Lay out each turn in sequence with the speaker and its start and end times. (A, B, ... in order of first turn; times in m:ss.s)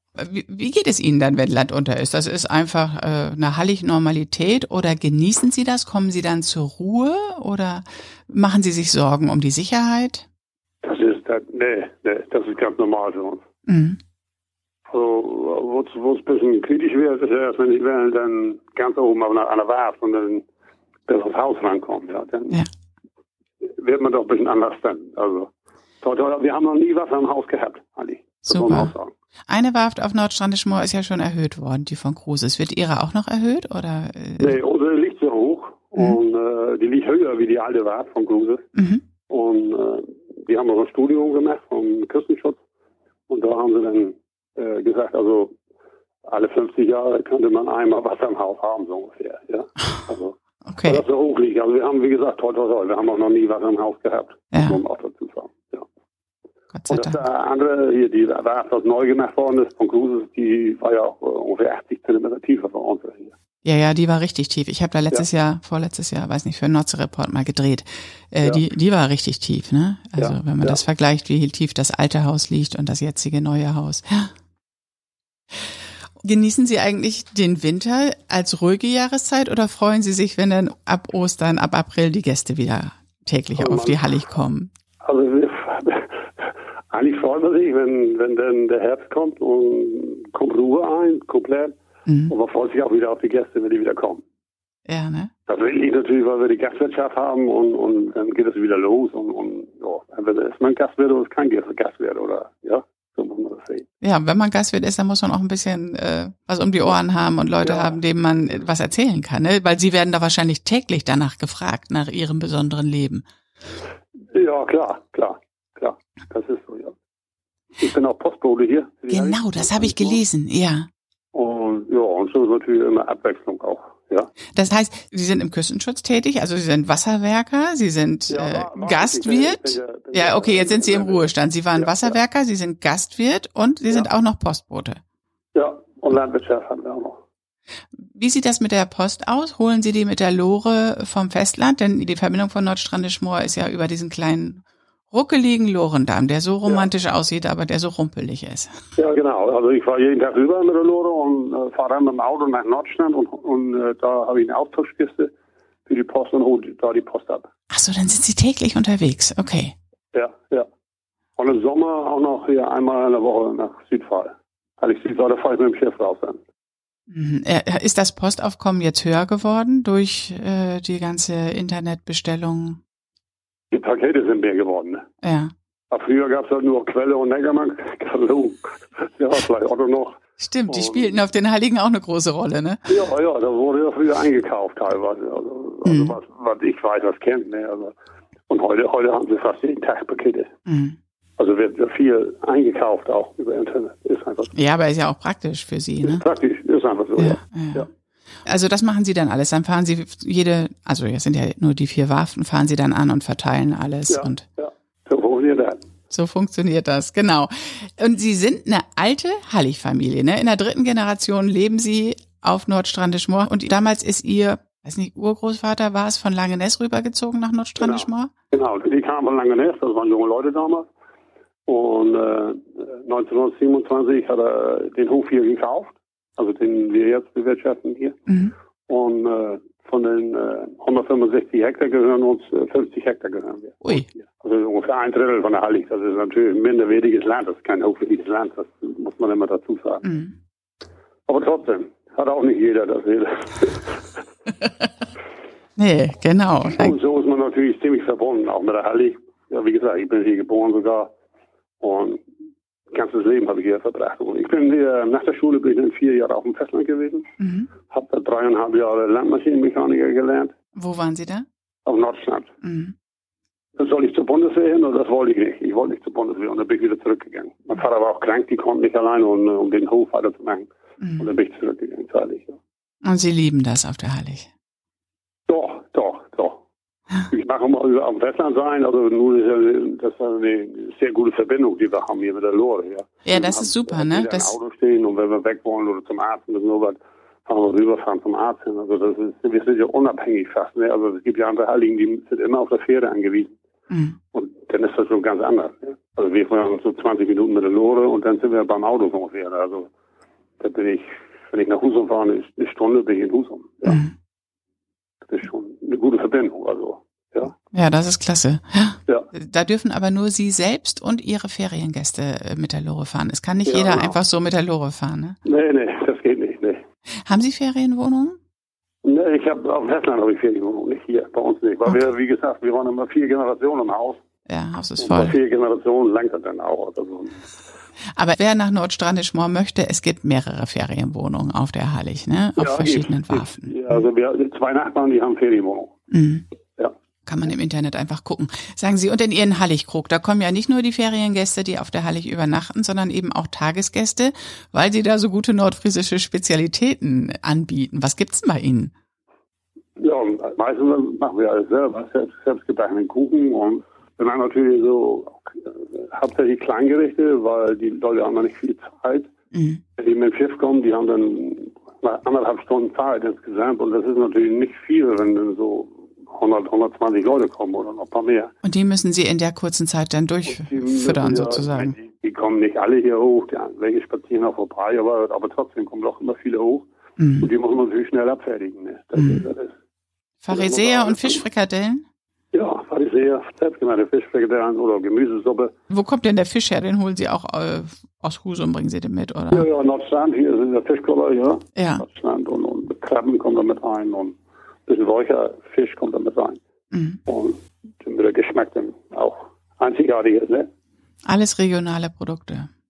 0:00.2-0:10.3 A
0:10.8-0:13.4 B
0:13.7-0:14.0 A
0:14.9-0:20.4 B
0:21.1-0:22.6 B
0:23.6-0:29.1 B
0:28.5-0:28.9 A
0:29.5-0:34.6 A
0:34.4-0:38.7 B
0:38.8-0:39.0 A
0:39.3-0:42.6 B
0:43.3-0:45.5 B
0:46.2-0:55.8 B
0:50.7-0:51.0 A
0:54.5-0:54.8 A
0:56.7-0:57.2 A
0:56.9-1:03.3 B
1:03.6-1:14.3 A
1:10.2-1:10.8 B
1:16.2-1:24.7 A
1:23.6-1:24.2 B
1:25.0-1:31.8 B
1:32.1-1:32.3 A
1:32.3-1:34.2 B
1:34.9-1:35.3 A
1:35.5-1:43.9 B
1:44.0-1:53.2 A
1:47.6-1:48.0 B
1:54.3-1:57.0 B
1:57.8-2:00.2 B
1:59.1-2:00.9 A
2:01.3-2:04.3 B
2:04.5-2:15.0 A
2:08.3-2:12.2 B
2:15.6-2:17.2 B
2:18.0-2:28.8 A
2:29.0-2:35.3 B
2:35.9-2:37.5 B
2:37.7-2:39.8 A
2:40.1-2:40.7 B
2:41.4-2:46.4 B
2:47.1-2:52.8 A
2:53.7-2:55.1 B
2:55.2-2:55.5 A
2:55.9-3:01.1 B
3:00.4-3:02.9 A
3:02.9-3:07.9 B
3:05.8-3:06.1 A
3:08.5-3:10.5 B
3:10.7-3:11.0 A
3:11.4-3:14.5 B
3:14.5-3:16.2 A
3:16.0-3:17.9 B
3:17.2-3:17.9 A
3:18.4-3:24.4 A
3:24.1-3:25.8 B
3:26.1-3:38.3 A
3:37.8-3:40.9 B
3:41.7-3:48.2 B
3:48.9-4:00.2 B
4:00.0-4:00.3 A
4:01.3-4:04.1 B
4:05.8-4:07.0 A
4:06.7-4:11.1 B
4:11.8-4:12.2 B
4:12.9-4:17.3 B
4:17.4-4:17.7 A
4:17.9-4:20.5 B
4:20.8-4:21.5 A
4:21.9-4:22.5 B
4:22.6-4:22.9 A
4:23.8-4:32.6 B
4:33.0-4:34.5 A
4:35.5-4:36.6 B
4:37.3-4:53.6 B
4:43.2-4:44.6 A
4:53.9-4:54.2 A
4:54.3-4:59.9 B
5:00.6-5:04.0 B
5:03.8-5:04.1 A
5:05.3-5:07.5 B
5:07.7-5:15.4 A
5:13.6-5:14.2 B
5:15.4-5:16.8 B
5:17.2-5:18.4 A
5:19.0-5:24.2 B
5:24.5-5:25.4 A
5:25.0-5:27.5 B
5:28.2-5:33.7 A
5:32.6-5:36.0 B
5:36.1-5:36.4 A
5:37.3-5:48.9 A
5:50.0-5:59.3 B
5:59.5-5:59.8 A
6:00.0-6:08.5 B
6:08.6-6:12.0 A
6:10.5-6:16.9 B
6:17.2-6:17.5 A
6:17.4-6:19.7 B
6:19.2-6:19.4 A
6:20.4-6:22.0 A
6:20.5-6:21.4 B
6:22.5-6:25.7 B
6:25.9-6:29.7 A
6:29.5-6:34.4 B
6:31.8-6:32.0 A
6:34.9-6:36.6 B
6:36.9-6:37.2 A
6:37.3-6:40.7 B
6:41.3-6:42.7 A